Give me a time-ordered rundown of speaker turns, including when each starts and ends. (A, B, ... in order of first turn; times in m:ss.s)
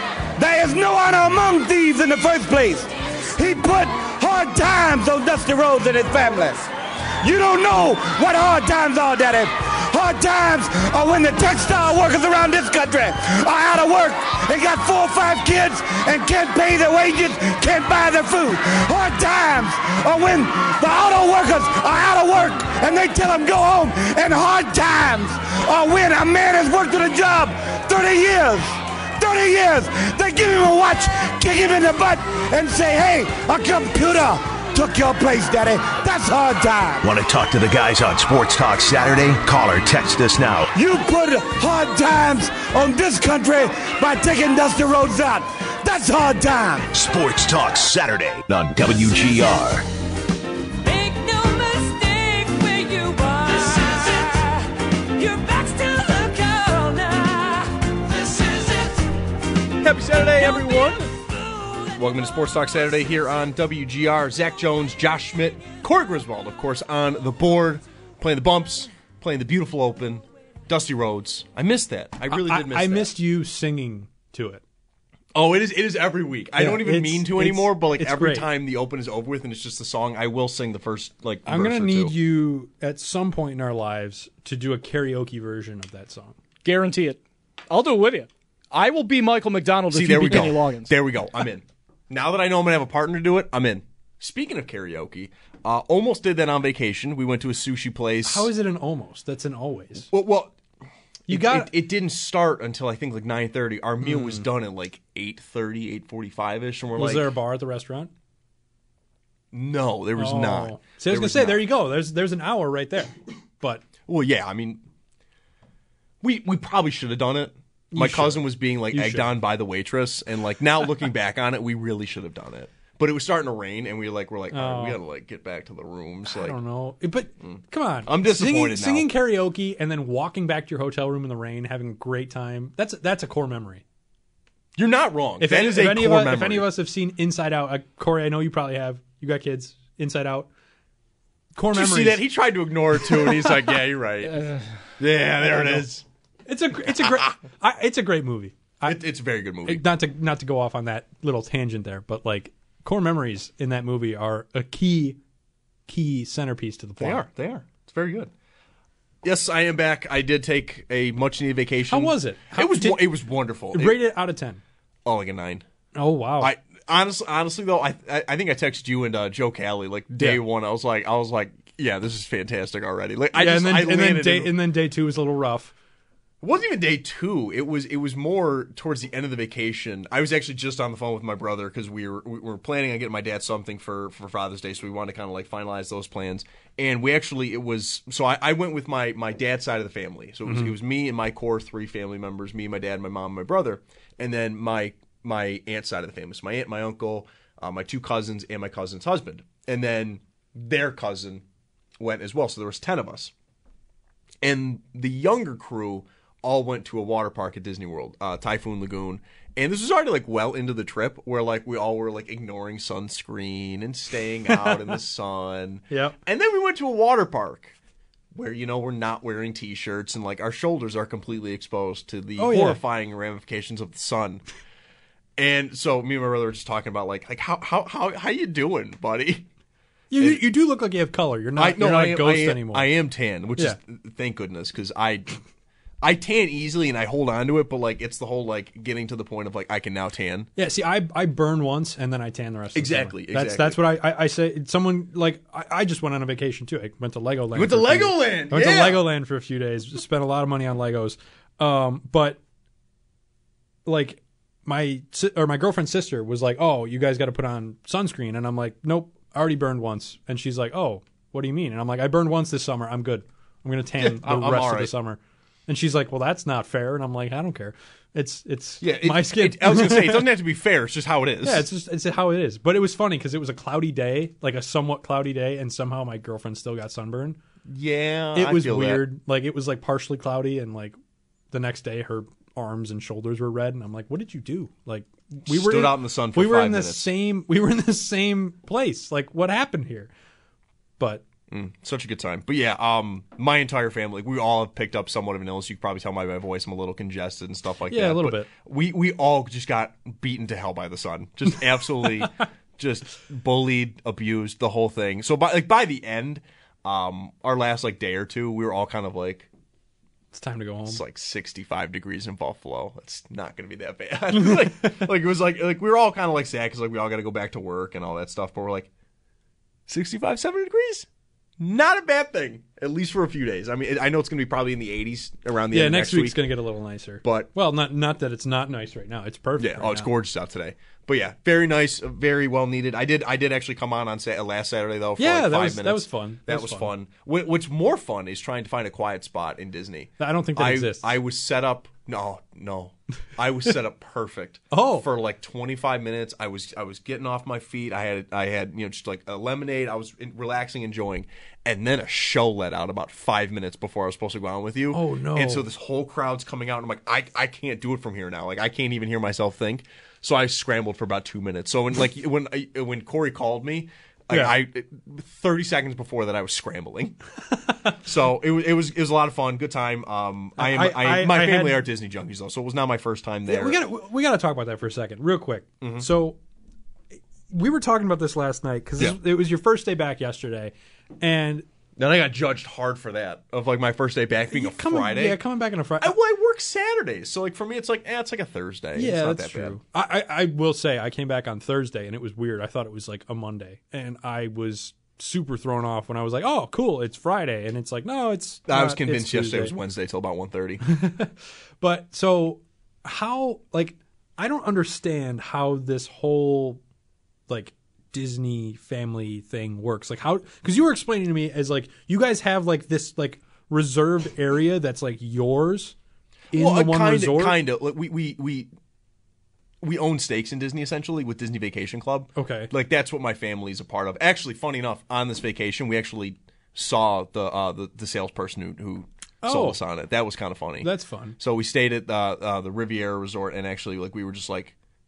0:00.4-0:06.6 A
0:07.2-0:37.0 A
0:37.0-0:40.7 B
0:40.7-0:46.9 A
0:46.9-0:49.9 B
0:50.8-0:59.2 C
0:59.8-1:01.1 D
1:00.2-1:01.9 C
1:01.9-1:13.1 D
1:12.3-1:14.6 E
1:15.3-1:22.1 D
1:16.6-1:18.5 E
1:21.4-1:26.4 E
1:26.6-1:30.9 F
1:29.9-1:38.5 D
1:38.2-1:40.1 E
1:40.1-1:40.6 D
1:41.3-1:41.7 E
1:41.3-1:47.3 D
1:44.0-1:44.4 E
1:47.0-1:48.1 E
1:49.5-1:51.6 D
1:50.2-1:53.8 E
1:54.1-1:54.8 D
1:56.2-2:06.6 D
1:57.9-1:59.3 E
2:04.5-2:05.0 E
2:06.3-2:13.8 E
2:07.4-2:09.1 D
2:14.8-2:16.7 D
2:15.4-2:20.5 E
2:21.5-2:22.2 E
2:21.7-2:24.4 D
2:23.0-2:23.5 E
2:24.3-2:24.6 F
2:25.0-2:26.0 D
2:26.5-2:29.0 E
2:26.8-2:27.3 D
2:28.8-2:29.8 D
2:29.6-2:35.2 E
2:35.9-2:37.2 E
2:37.0-2:38.3 D
2:39.2-2:44.0 D
2:41.9-2:43.1 E
2:43.7-2:44.6 E
2:45.0-2:45.6 D
2:46.0-2:46.5 E
2:46.4-2:54.5 D
2:53.3-2:55.7 E
2:56.4-3:21.4 D
3:10.4-3:10.7 E
3:22.0-3:23.3 D
3:24.4-3:37.7 D
3:34.5-3:34.9 E
3:35.9-3:36.2 E
3:38.3-3:44.4 D
3:42.4-3:42.8 E
3:45.4-3:49.5 D
3:50.1-3:52.9 E
3:50.2-3:50.4 D
3:51.6-3:55.4 D
3:56.0-4:00.5 D
4:00.6-4:12.4 E
4:02.7-4:03.8 D
4:07.5-4:09.0 D
4:13.8-4:30.3 E
4:24.0-4:24.9 D
4:28.8-4:31.7 D
4:31.4-4:37.4 E
4:37.6-4:39.0 D
4:38.3-4:41.0 E
4:41.5-4:50.1 E
4:45.4-4:47.1 D
4:51.5-5:09.5 D
4:57.9-4:58.5 E
5:02.2-5:02.4 E
5:10.3-5:11.0 E
5:10.8-5:18.9 D
5:14.5-5:14.9 E
5:19.9-5:21.1 D
5:21.6-5:26.4 D
5:25.7-5:30.1 E
5:27.2-5:27.5 D
5:29.6-6:07.2 D
5:35.2-5:36.9 E
5:40.2-5:41.1 E
5:44.7-5:45.1 E
5:54.9-5:55.6 E
6:07.5-6:07.9 E
6:07.9-6:13.8 D
6:10.6-6:11.8 E
6:13.5-6:16.4 E
6:15.8-6:16.1 D
6:17.5-6:21.6 E
6:22.0-6:25.4 D
6:24.5-6:26.1 E
6:26.0-6:29.8 D
6:28.9-6:39.7 E
6:38.7-6:40.8 D
6:40.8-6:46.8 E
6:47.5-6:55.9 E
6:56.5-6:57.6 E
6:56.5-6:58.7 D
6:59.8-7:14.7 D
7:02.4-7:02.7 E
7:09.4-7:09.8 E
7:10.8-7:11.4 E